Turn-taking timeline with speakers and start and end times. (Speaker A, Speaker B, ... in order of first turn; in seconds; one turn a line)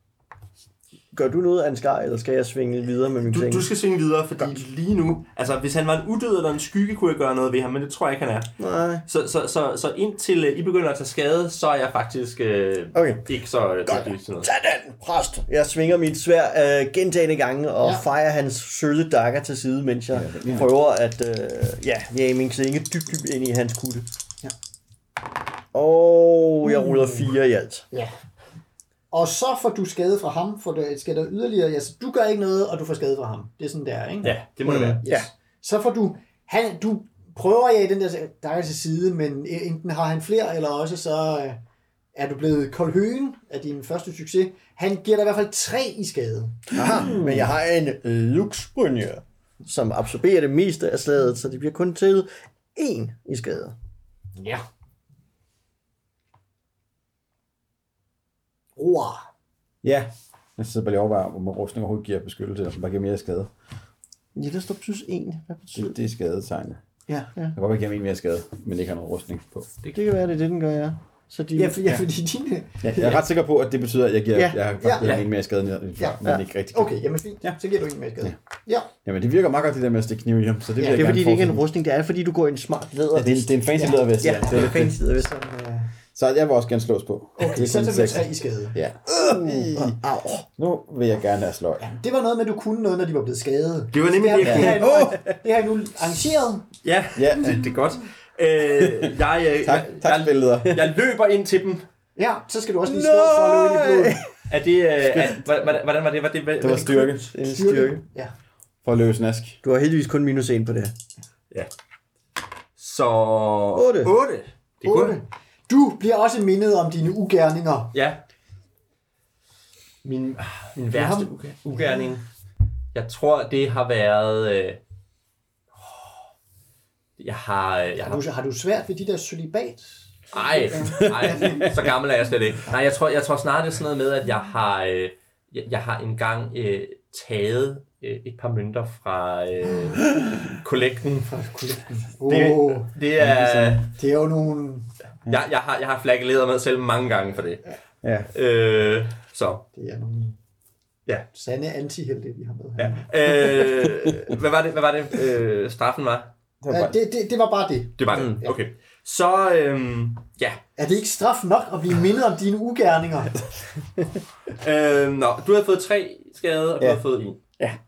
Speaker A: 1.1-3.7
Speaker B: 3.2-14.5
Speaker A: 8.6-9.0
Speaker A: 12.9-13.3
Speaker A: 13.8-24.1
Speaker C: 20.1-20.7
Speaker A: 25.7-27.9
Speaker D: 26.7-27.2
Speaker D: 27.9-28.2
Speaker D: 29.1-41.6
Speaker B: 34.2-35.0
Speaker A: 34.6-35.3
Speaker D: 42.1-46.6
Speaker C: 46.7-47.3
Speaker A: 46.7-53.8
Speaker D: 54.4-54.6
Speaker D: 58.8-59.3
Speaker C: 59.8-63.5
Speaker A: 64.3-66.0
Speaker C: 65.7-66.8
Speaker C: 67.5-69.7
Speaker A: 69.9-71.8
Speaker D: 71.5-73.2
Speaker C: 72.8-77.6
Speaker D: 74.8-75.1
Speaker B: 75.0-75.2
Speaker D: 76.0-78.9
Speaker C: 79.0-81.7
Speaker D: 80.8-81.1
Speaker A: 80.8-85.3
Speaker C: 83.1-85.0
Speaker D: 83.8-85.9
Speaker C: 86.1-90.0
Speaker D: 87.4-88.8
Speaker A: 89.1-90.5
Speaker C: 90.6-91.8
Speaker D: 91.8-96.7
Speaker B: 93.9-94.8
Speaker C: 94.4-95.3
Speaker B: 96.8-101.9
Speaker C: 97.1-97.8
Speaker C: 98.8-100.8
Speaker D: 102.2-104.2
Speaker A: 102.9-104.4
Speaker B: 104.5-107.2
Speaker C: 106.6-107.3
Speaker A: 107.3-108.0
Speaker D: 107.4-108.3
Speaker C: 108.8-109.6
Speaker A: 109.6-110.9
Speaker B: 112.8-115.2
Speaker A: 113.7-114.1
Speaker D: 114.8-117.9
Speaker B: 117.9-118.2
Speaker B: 120.0-122.3
Speaker D: 120.9-122.2
Speaker B: 122.9-124.8
Speaker B: 127.2-128.2
Speaker D: 128.0-131.8
Speaker B: 130.3-141.4
Speaker C: 131.0-131.7
Speaker D: 141.2-142.9
Speaker B: 142.2-143.9
Speaker C: 143.2-143.8
Speaker D: 143.9-144.9
Speaker B: 145.3-147.7
Speaker C: 148.0-148.3
Speaker B: 148.3-149.7
Speaker D: 149.7-150.4
Speaker D: 151.3-153.1
Speaker B: 152.8-156.3
Speaker C: 156.6-157.0
Speaker D: 156.7-158.6
Speaker B: 158.0-160.6
Speaker D: 160.8-163.4
Speaker B: 164.5-167.4